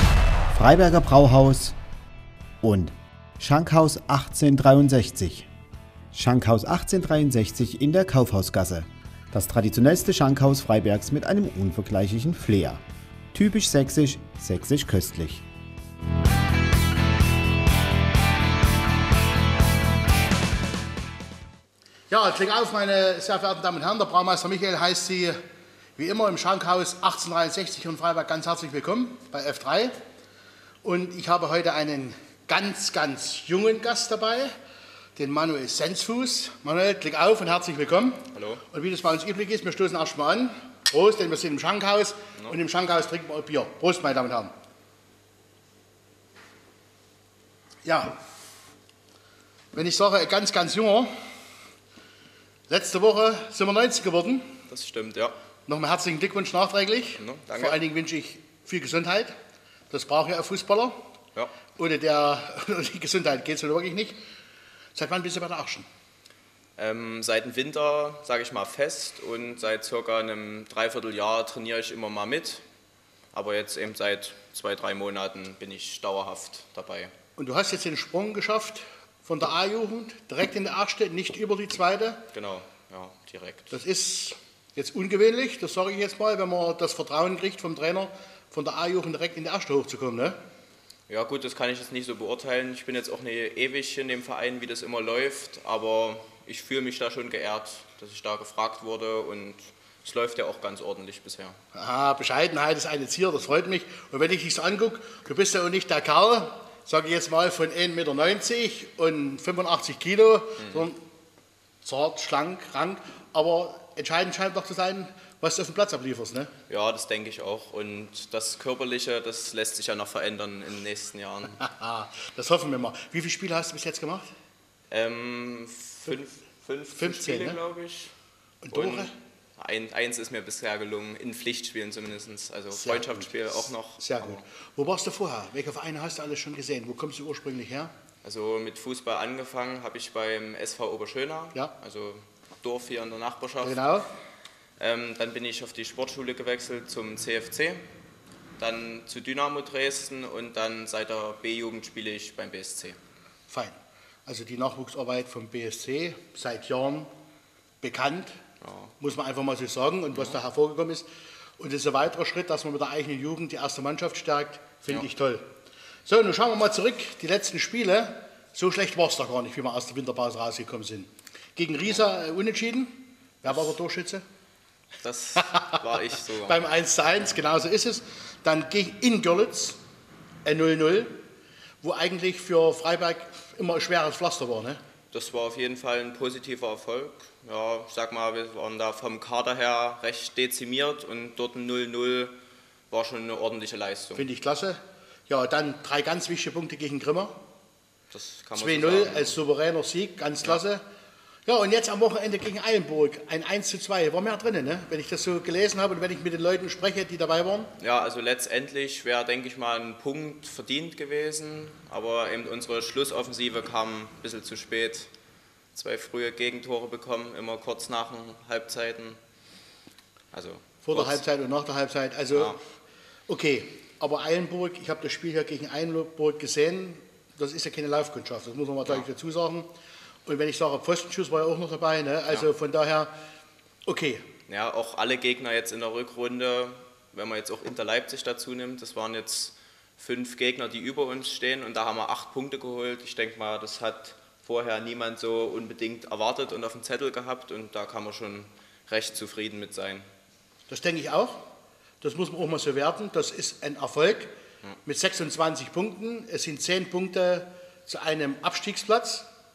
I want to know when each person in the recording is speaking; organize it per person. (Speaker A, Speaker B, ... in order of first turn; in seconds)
Speaker A: 0.5-1.8, 2.6-5.5, 6.1-12.8, 13.3-15.5
Speaker B: 22.1-25.4, 26.0-30.0, 30.8-34.5, 35.2-44.5, 47.8-48.2, 49.7-51.1, 52.7-54.5, 55.7-59.3, 59.9-61.0, 61.8-64.2, 65.0-65.9, 77.4-82.2, 83.7-90.4, 101.7-111.0, 111.8-116.5, 121.6-124.3, 127.0-127.6, 128.6-129.1, 132.7-137.9, 143.6-144.1, 153.5-157.1, 157.8-158.4, 159.0-161.1, 161.6-165.5, 166.1-174.2, 176.5-179.8, 180.4-181.2, 181.8-184.8, 194.2-197.4, 198.6-200.8, 201.5-207.7, 220.8-222.6, 223.3-229.7, 230.3-233.1, 233.8-234.2, 250.7-251.4, 252.0-254.3, 254.8-259.3
Speaker C: 38.3-38.6, 54.7-55.4, 57.1-57.8, 66.8-72.6, 73.3-77.1, 82.3-83.8, 91.1-101.6, 110.6-110.9, 116.7-121.6, 124.9-128.1, 128.7-134.5, 138.2-143.9, 144.8-147.8, 148.6-153.0, 158.6-158.9, 160.1-160.4, 173.4-173.7, 175.0-176.6, 185.1-192.3, 192.9-194.3, 198.1-199.4, 207.8-215.1, 215.8-219.2, 220.3-221.2, 222.3-222.6, 234.5-250.1